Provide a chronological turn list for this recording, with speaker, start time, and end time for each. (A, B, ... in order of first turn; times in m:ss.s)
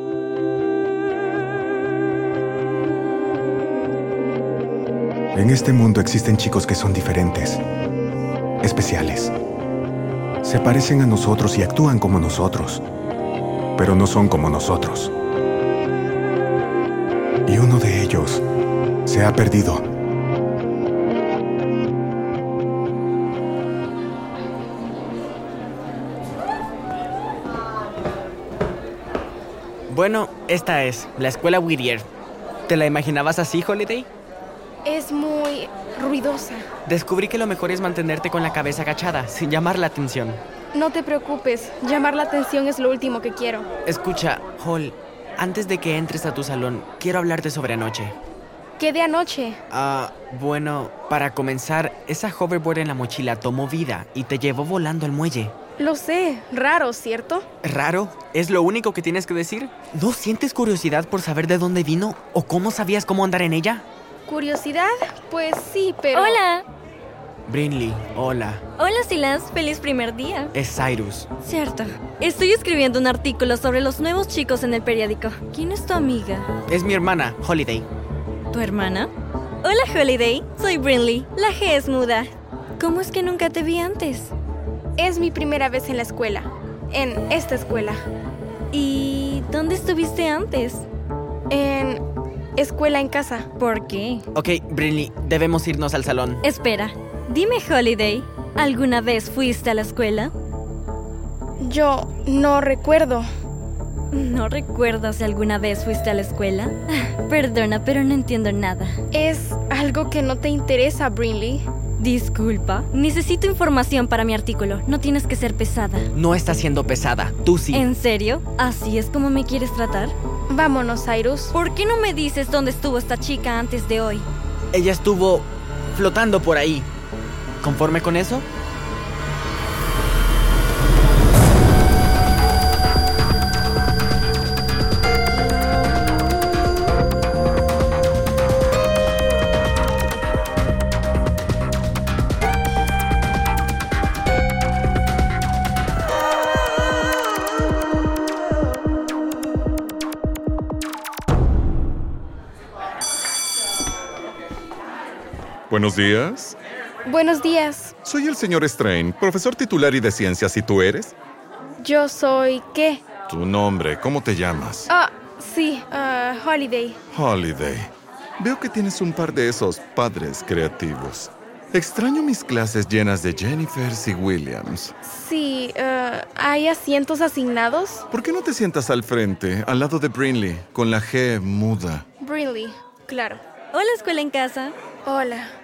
0:05.3-0:07.6 A
0:08.6-0:09.3 A
0:10.4-0:12.8 A
0:13.8-0:15.1 A
0:17.5-0:18.4 A
0:19.0-0:19.8 A
0:29.9-0:32.0 B
0:32.7-0:34.0 B
0:34.8-0:36.6 C
0:36.9-0:40.4 B
0:40.7-0:43.7 C
0:43.9-0:48.1 B
0:48.8-0:49.6 C
0:49.7-0:55.5 B
0:55.8-0:57.4 C
0:57.6-1:03.8 B
1:04.3-1:06.4 C
1:06.1-1:06.6 D
1:07.5-1:08.6 B
1:08.8-1:10.5 D
1:10.6-1:11.2 B
1:11.4-1:16.5 D
1:16.7-1:17.8 B
1:18.5-1:19.1 D
1:19.6-1:24.3 D
1:25.0-1:28.0 C
1:28.7-1:30.8 D
1:31.5-1:32.0 C
1:32.6-1:33.5 C
1:33.6-1:34.2 D
1:34.4-1:36.4 B
1:36.4-1:40.3 D
1:41.6-1:43.3 C
1:44.1-1:49.0 D
1:49.1-1:51.7 C
1:52.0-1:56.1 D
1:56.2-1:57.8 B
1:57.7-2:00.1 D
2:00.5-2:01.5 C
2:01.5-2:04.2 D
2:04.7-2:05.4 B
2:06.0-2:06.8 B
2:07.6-2:08.4 B
2:35.7-2:36.6 E
2:37.0-2:37.9 C
2:38.0-2:41.1 E
2:41.8-2:43.0 C
2:43.3-2:44.9 E
2:44.9-2:47.0 C
2:47.1-2:54.9 E
2:55.0-2:58.0 C
2:58.1-3:02.0 E
3:02.2-3:03.4 C
3:03.7-3:04.7 D
3:05.0-3:05.5 C